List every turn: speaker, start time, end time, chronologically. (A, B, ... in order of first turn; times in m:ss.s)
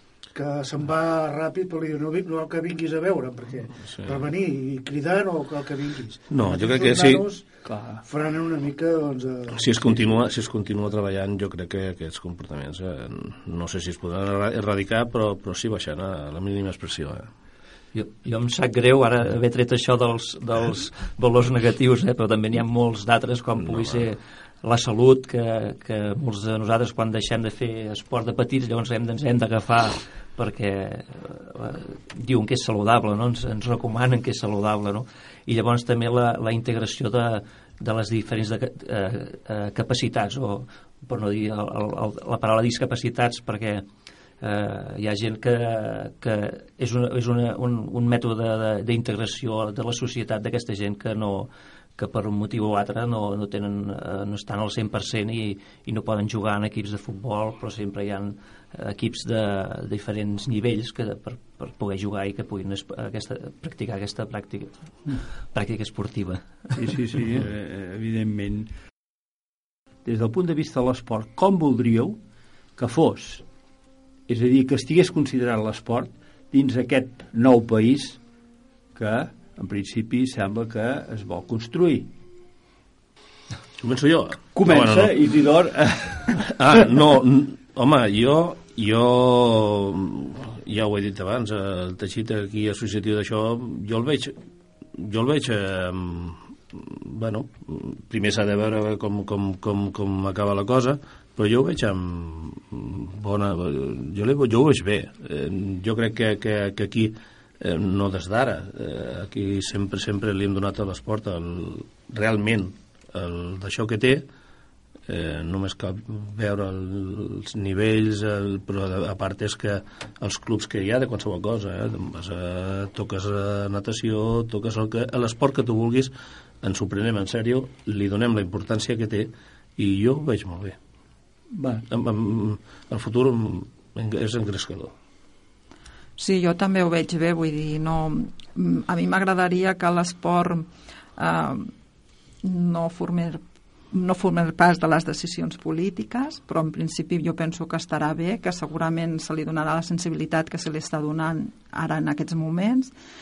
0:00.3-0:07.5 A
0:06.3-0:07.3 B
0:07.6-0:08.0 C
0:08.0-0:10.2 A
0:09.5-0:17.3 B
0:17.9-0:43.9 D
0:23.6-0:24.0 B
0:44.4-1:06.9 D
1:06.8-1:08.7 C
1:10.0-1:12.2 C
1:12.8-1:13.4 C
1:14.3-1:18.2 C
1:19.0-1:22.1 C
1:23.8-1:25.3 B
1:24.5-1:26.4 C
1:26.3-1:34.3 B
1:35.0-1:54.3 B
1:55.1-2:10.8 B
2:11.6-2:11.8 C
2:11.9-2:14.9 B
2:16.2-2:21.7 E
2:22.4-2:32.9 E